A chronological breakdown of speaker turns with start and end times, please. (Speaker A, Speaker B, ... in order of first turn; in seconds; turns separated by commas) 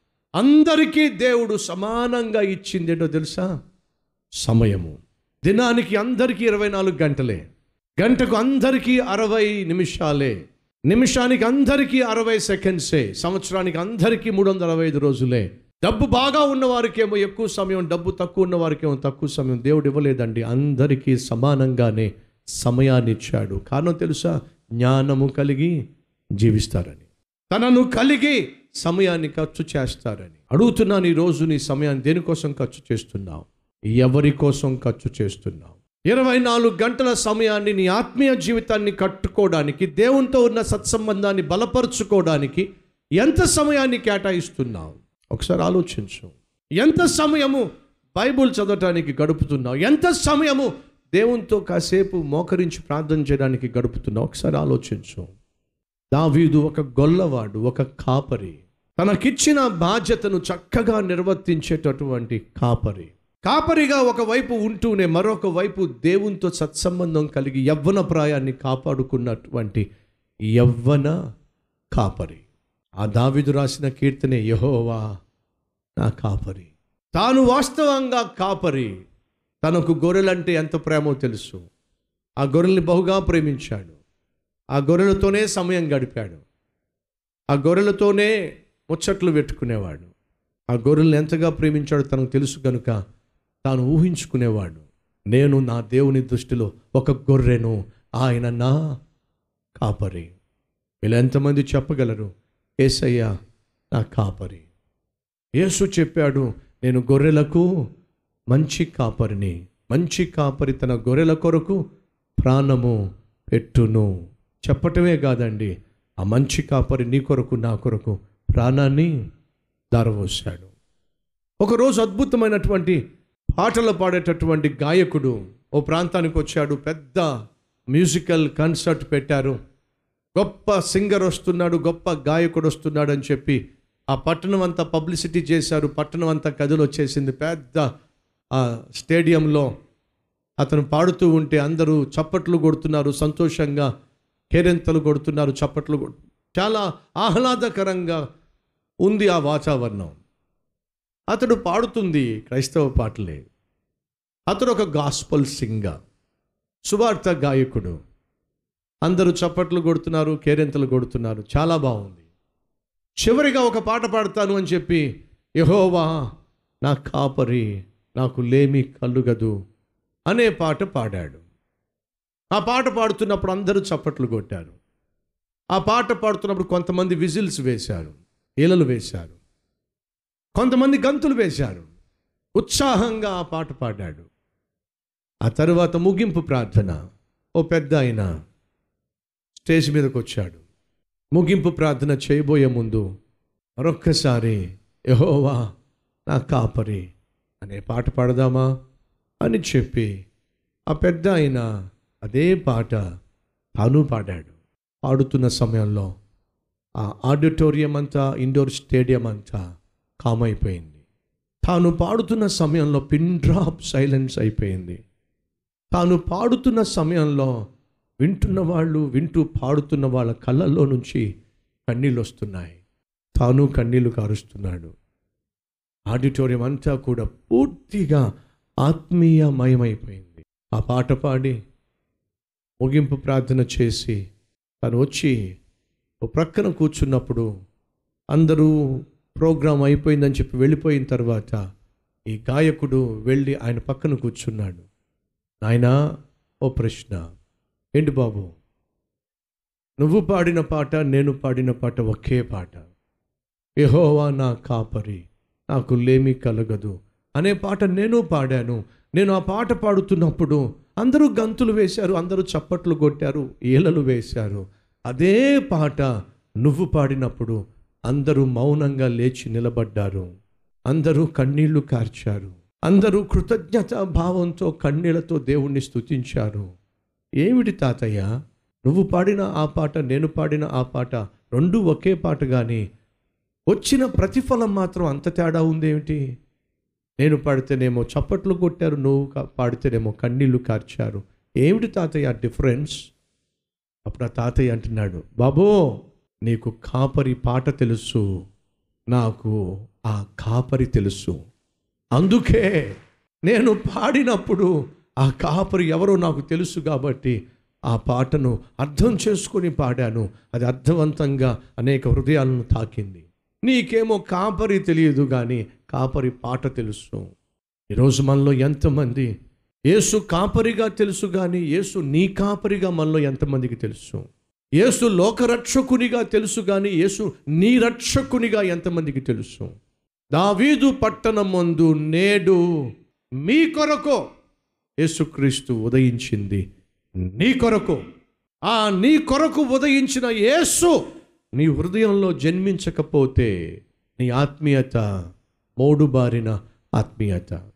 Speaker A: 0.4-3.5, Speaker A: 4.4-7.4, Speaker A: 8.0-10.3, Speaker A: 10.9-25.7, Speaker A: 26.4-42.6, Speaker A: 43.2-55.3, Speaker A: 56.1-69.8, Speaker A: 70.5-71.2, Speaker A: 71.9-72.4, Speaker A: 73.0-75.0, Speaker A: 76.0-78.9, Speaker A: 79.6-81.6, Speaker A: 82.4-84.0, Speaker A: 84.7-86.4, Speaker A: 87.5-88.3, Speaker A: 88.9-90.1, Speaker A: 90.7-93.0, Speaker A: 93.6-98.8, Speaker A: 99.8-100.3, Speaker A: 101.0-102.3, Speaker A: 102.8-103.3, Speaker A: 103.9-104.7, Speaker A: 105.6-107.7, Speaker A: 108.5-111.8, Speaker A: 112.4-113.0, Speaker A: 113.5-114.1, Speaker A: 114.6-119.1, Speaker A: 119.9-120.7, Speaker A: 121.6-123.0, Speaker A: 123.5-127.3, Speaker A: 127.9-129.6, Speaker A: 130.3-133.6, Speaker A: 134.1-137.8, Speaker A: 138.5-139.7, Speaker A: 140.6-143.9, Speaker A: 144.5-148.2, Speaker A: 149.0-150.1, Speaker A: 151.3-153.5, Speaker A: 154.5-155.9, Speaker A: 156.8-157.9, Speaker A: 159.0-162.2, Speaker A: 163.2-165.0, Speaker A: 165.6-166.2, Speaker A: 166.8-169.5, Speaker A: 170.3-171.4, Speaker A: 172.5-174.7, Speaker A: 175.7-179.3, Speaker A: 180.5-181.9, Speaker A: 182.6-184.2, Speaker A: 185.4-187.0, Speaker A: 187.6-188.3, Speaker A: 189.6-190.6, Speaker A: 191.3-193.0, Speaker A: 193.8-195.6, Speaker A: 196.3-197.0, Speaker A: 197.6-198.7, Speaker A: 199.4-200.1, Speaker A: 200.9-201.7, Speaker A: 202.2-203.0, Speaker A: 203.8-204.5, Speaker A: 205.0-206.1, Speaker A: 207.0-209.6, Speaker A: 210.2-211.0, Speaker A: 211.6-215.0, Speaker A: 215.9-217.5, Speaker A: 218.2-221.2, Speaker A: 221.9-222.8, Speaker A: 223.3-224.9, Speaker A: 226.1-228.2, Speaker A: 228.8-231.6, Speaker A: 232.8-234.2, Speaker A: 234.8-235.3, Speaker A: 236.2-237.5, Speaker A: 238.3-238.7, Speaker A: 239.3-241.6, Speaker A: 242.3-244.8, Speaker A: 245.6-245.9, Speaker A: 246.6-247.2, Speaker A: 248.0-248.5, Speaker A: 250.0-252.8, Speaker A: 253.8-266.1, Speaker A: 266.6-270.3, Speaker A: 270.9-276.6, Speaker A: 277.4-278.3, Speaker A: 278.9-282.8, Speaker A: 283.7-286.2, Speaker A: 287.2-293.0, Speaker A: 294.1-295.8, Speaker A: 296.4-298.2, Speaker A: 299.1-299.6, Speaker A: 300.1-301.4, Speaker A: 302.1-302.8, Speaker A: 303.4-304.7, Speaker A: 305.2-307.3, Speaker A: 307.9-317.2, Speaker A: 317.9-319.3, Speaker A: 319.9-324.2, Speaker A: 324.8-329.7, Speaker A: 330.3-332.6, Speaker A: 333.4-334.2, Speaker A: 335.0-336.6, Speaker A: 337.3-338.0, Speaker A: 338.6-341.0, Speaker A: 341.6-343.5, Speaker A: 344.2-345.1, Speaker A: 345.8-347.6